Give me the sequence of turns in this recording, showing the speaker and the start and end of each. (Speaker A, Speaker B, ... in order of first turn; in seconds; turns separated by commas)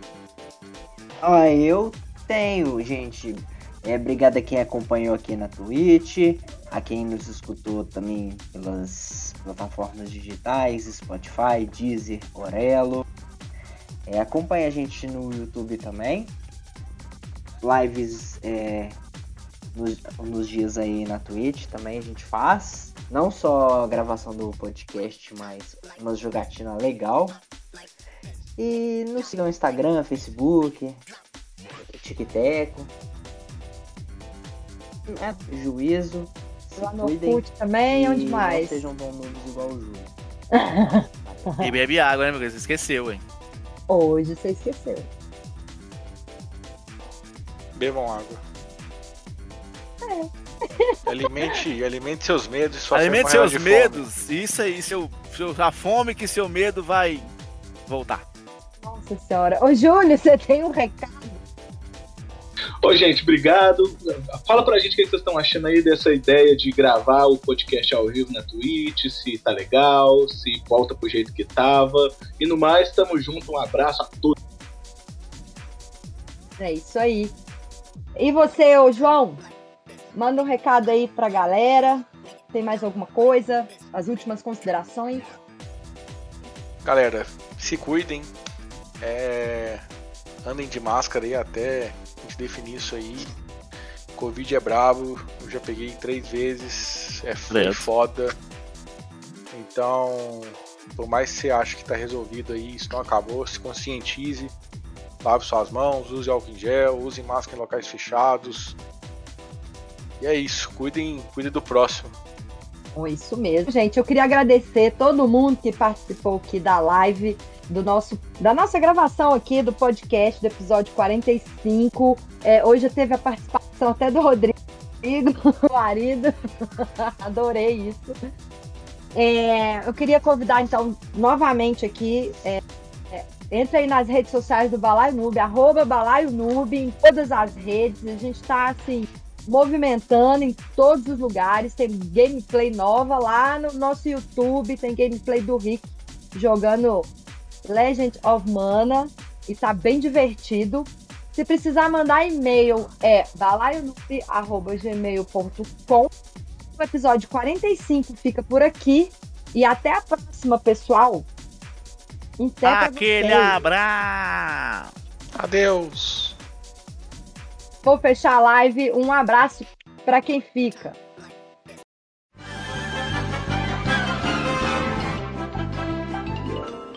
Speaker A: 1.2-13.1, Speaker A: 14.1-16.4, Speaker A: 17.6-19.0, Speaker A: 19.7-27.4, Speaker A: 28.6-31.0, Speaker A: 31.8-32.9, Speaker A: 35.1-40.1, Speaker B: 36.8-38.9, Speaker B: 40.5-41.7, Speaker A: 41.2-41.5, Speaker C: 41.6-43.2, Speaker B: 43.9-45.1, Speaker D: 47.7-48.4, Speaker B: 50.0-51.0, Speaker D: 51.1-54.0, Speaker C: 52.9-57.3, Speaker C: 57.9-58.2, Speaker B: 58.8-61.4, Speaker E: 62.8-74.3, Speaker B: 76.6-77.3, Speaker B: 78.2-79.4, Speaker B: 80.1-85.3, Speaker D: 86.8-88.3, Speaker D: 89.0-89.8, Speaker D: 90.4-93.3, Speaker D: 94.2-98.3, Speaker C: 97.5-97.9, Speaker D: 99.5-104.5, Speaker D: 105.2-108.8, Speaker D: 110.2-112.2, Speaker B: 112.9-128.1, Speaker B: 129.1-147.1, Speaker B: 147.6-156.1, Speaker B: 156.8-161.3, Speaker B: 162.4-163.6, Speaker C: 162.6-164.9, Speaker D: 165.3-166.3, Speaker B: 167.8-171.0